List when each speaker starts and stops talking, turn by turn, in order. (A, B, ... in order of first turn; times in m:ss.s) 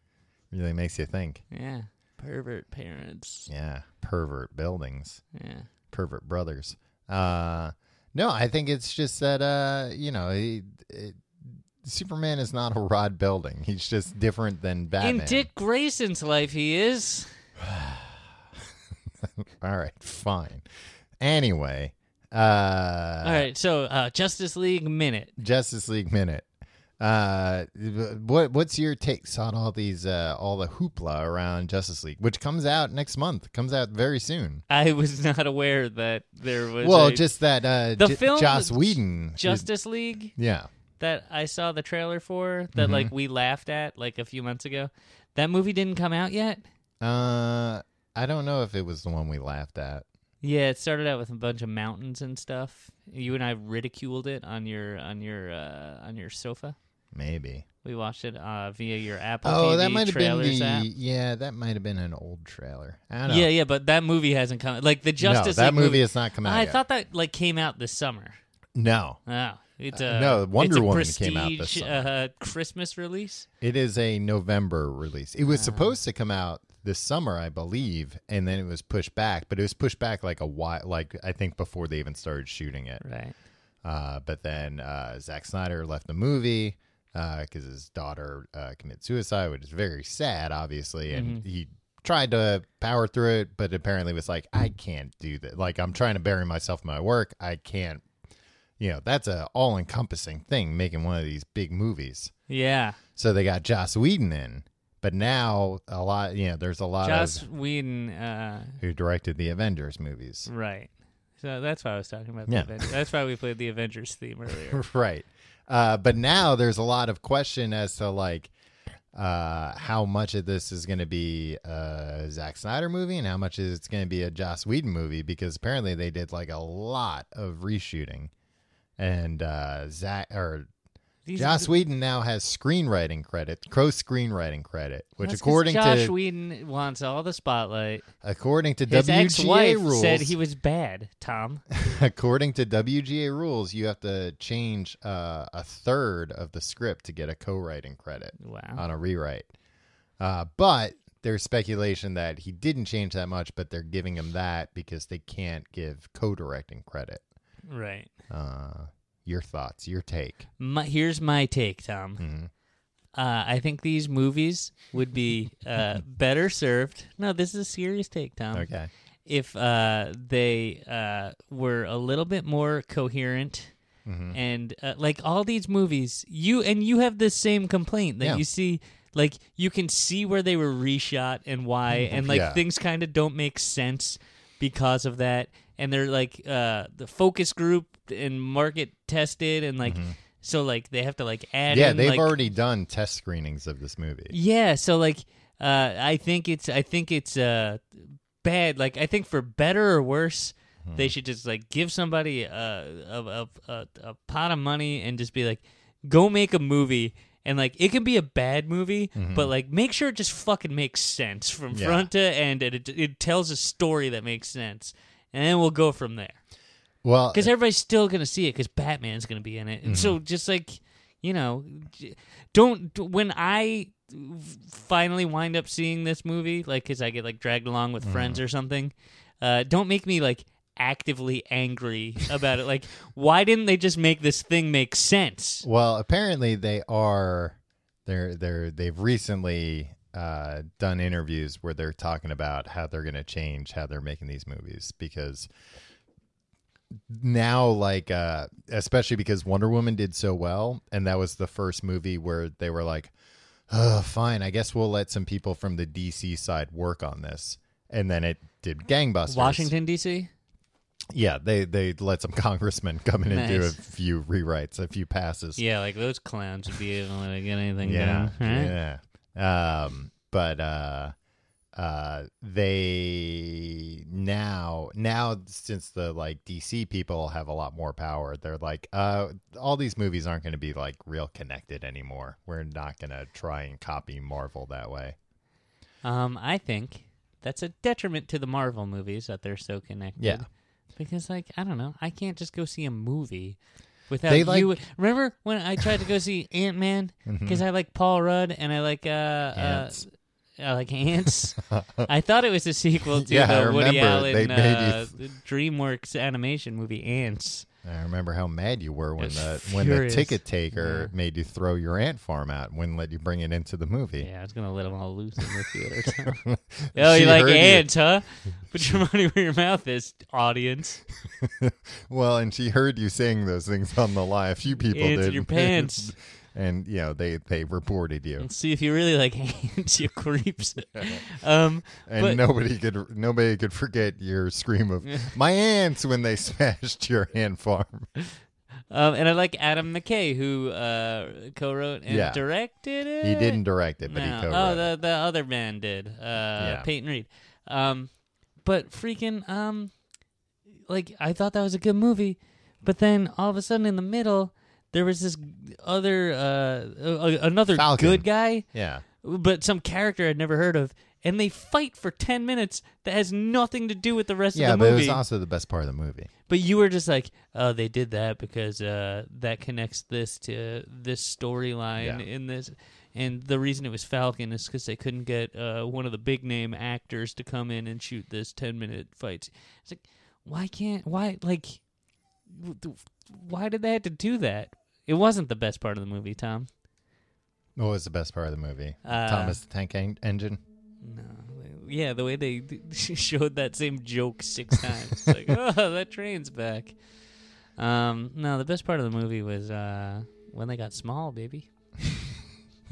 0:00.5-0:01.4 A
0:01.5-0:03.5 B
0:03.5-0:05.2 A
0:05.3-0:05.7 B
0:05.9-0:15.5 A
0:15.0-0:17.3 B
0:17.6-0:18.4 A
0:19.2-0:20.6 A
0:21.2-0:23.5 A
0:23.2-0:25.3 B
0:25.4-0:26.5 A
0:27.0-0:34.6 A
0:34.7-0:37.3 B
0:36.8-0:39.7 A
0:38.0-0:40.3 B
0:40.4-0:40.7 A
0:41.0-0:46.6 B
0:42.8-0:43.1 A
0:47.0-0:50.0 A
0:50.4-0:56.8 B
0:57.1-0:57.7 A
0:57.8-1:00.9 B
0:59.4-1:03.5 A
1:03.3-1:08.4 B
1:05.2-1:06.8 A
1:08.8-1:09.2 A
1:09.3-1:13.5 B
1:09.9-1:12.1 A
1:13.6-1:23.0 A
1:15.4-1:16.0 B
1:23.0-1:23.4 B
1:23.8-1:38.0 A
1:31.1-1:31.4 B
1:38.8-1:42.3 A
1:42.5-1:43.0 B
1:43.2-1:47.4 A
1:47.0-1:48.8 B
1:48.8-1:50.5 A
1:50.5-1:54.8 B
1:52.5-1:52.8 A
1:54.7-1:58.5 A
1:59.1-2:08.3 A
2:09.0-2:10.7 A
2:11.3-2:11.7 B
2:11.4-2:16.1 A
2:15.2-2:18.1 B
2:18.2-2:20.4 A
2:18.9-2:21.6 B
2:21.8-2:29.5 A
2:28.4-2:28.8 B
2:30.2-2:37.2 A
2:37.7-2:38.1 B
2:38.3-2:40.4 A
2:40.6-2:42.2 B
2:42.2-2:42.5 A
2:43.2-2:48.7 B
2:48.5-2:48.9 A
2:49.3-2:53.7 B
2:54.1-2:54.4 A
2:54.3-3:12.4 B
3:01.9-3:02.6 A
3:09.8-3:10.2 A
3:11.7-3:14.4 A
3:14.3-3:36.4 B
3:20.8-3:21.2 A
3:29.2-3:29.5 A
3:31.7-3:32.1 A
3:37.0-3:37.5 A
3:37.3-3:55.7 B
3:39.8-3:40.2 A
3:48.0-3:48.4 A
3:55.6-4:05.5 A
4:07.1-4:13.1 A
4:13.7-4:19.7 A
4:19.3-4:20.3 B
4:21.1-4:25.6 A
4:23.3-4:23.8 B
4:25.6-4:28.8 B
4:27.8-4:31.1 A
4:31.8-4:45.2 A
4:46.0-5:07.7 B
4:50.2-4:50.4 A
4:54.3-4:54.8 A
4:57.3-4:57.6 A
4:59.6-5:00.0 A
5:01.6-5:02.1 A
5:03.1-5:05.1 A
5:07.8-5:14.3 A
5:09.2-5:11.1 B
5:14.2-5:16.4 B
5:16.0-5:17.9 A
5:16.9-5:21.0 B
5:21.4-5:28.5 A
5:24.8-5:26.1 B
5:28.4-5:32.4 B
5:31.0-5:31.2 A
5:32.1-5:38.1 A
5:35.0-5:35.3 B
5:38.9-5:48.1 B
5:42.1-5:42.4 A
5:43.2-5:44.9 A
5:46.6-5:46.9 A
5:48.6-5:49.9 B
5:50.9-5:58.6 B
5:57.7-5:59.0 A
5:59.2-6:05.2 B
6:04.6-6:06.3 A
6:06.5-6:21.8 B
6:12.0-6:12.2 A
6:22.5-6:26.7 B
6:27.8-6:30.6 A
6:29.0-6:29.6 B
6:31.0-6:37.0 B
6:37.8-6:41.7 B